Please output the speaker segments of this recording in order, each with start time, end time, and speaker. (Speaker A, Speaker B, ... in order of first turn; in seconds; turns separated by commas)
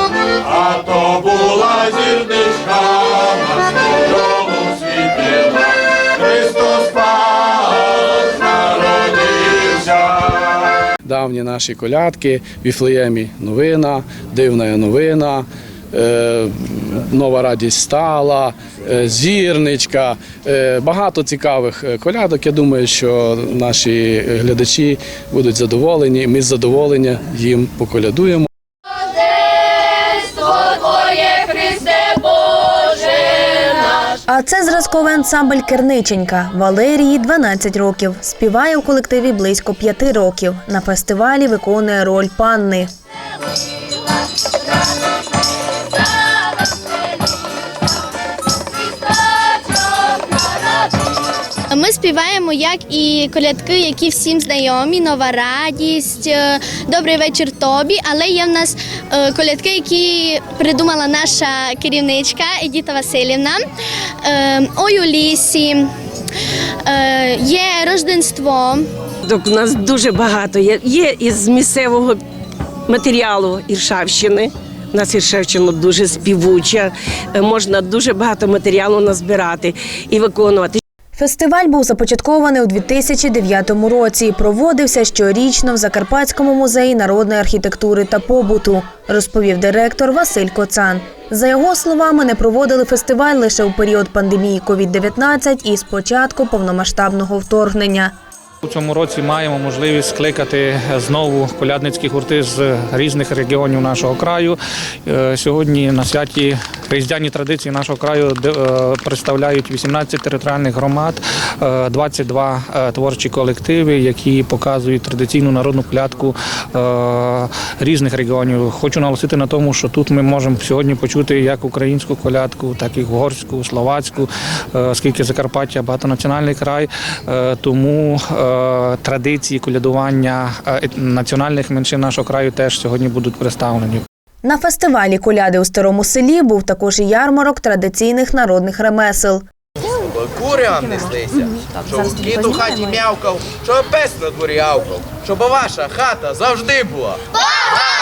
Speaker A: 1.1-3.2, Speaker A: 4.3-5.5, Speaker A: 6.2-7.5, Speaker A: 8.7-10.2, Speaker A: 11.0-28.5, Speaker B: 30.4-32.4, Speaker C: 34.3-42.9, Speaker B: 51.7-63.6, Speaker B: 64.2-65.9, Speaker B: 66.8-68.9, Speaker D: 69.2-72.2, Speaker D: 72.9-80.8, Speaker C: 81.2-98.1, Speaker E: 98.6-134.0, Speaker C: 134.4-139.4, Speaker F: 140.1-147.2